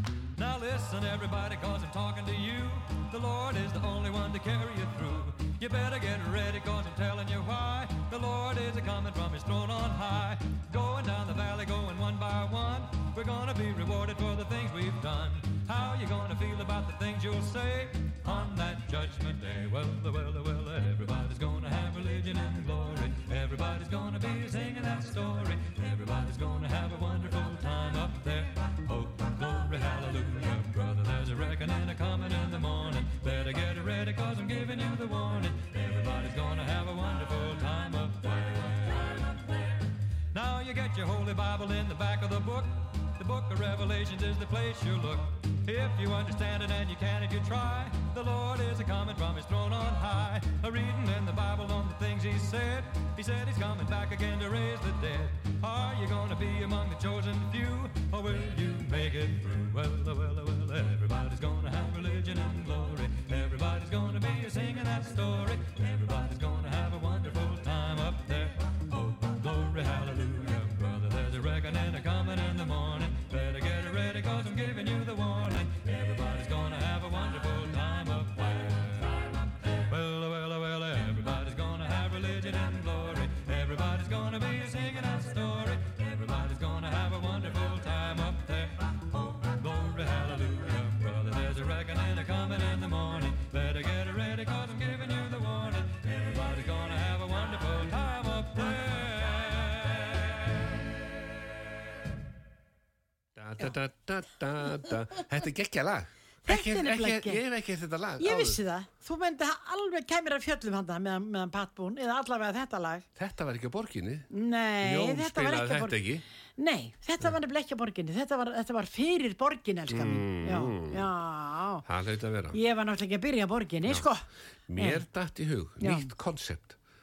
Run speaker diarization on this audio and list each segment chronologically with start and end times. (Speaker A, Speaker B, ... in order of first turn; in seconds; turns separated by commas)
Speaker A: 0.4-100.7, Speaker B: 103.3-108.6, Speaker C: 106.5-107.4, Speaker C: 108.2-113.1, Speaker B: 113.2-114.3, Speaker C: 114.3-116.0, Speaker B: 114.8-116.2, Speaker C: 116.6-121.8, Speaker B: 119.9-121.0, Speaker B: 121.9-122.6, Speaker C: 122.5-124.2, Speaker B: 124.7-126.8, Speaker C: 124.8-125.0, Speaker C: 125.8-126.1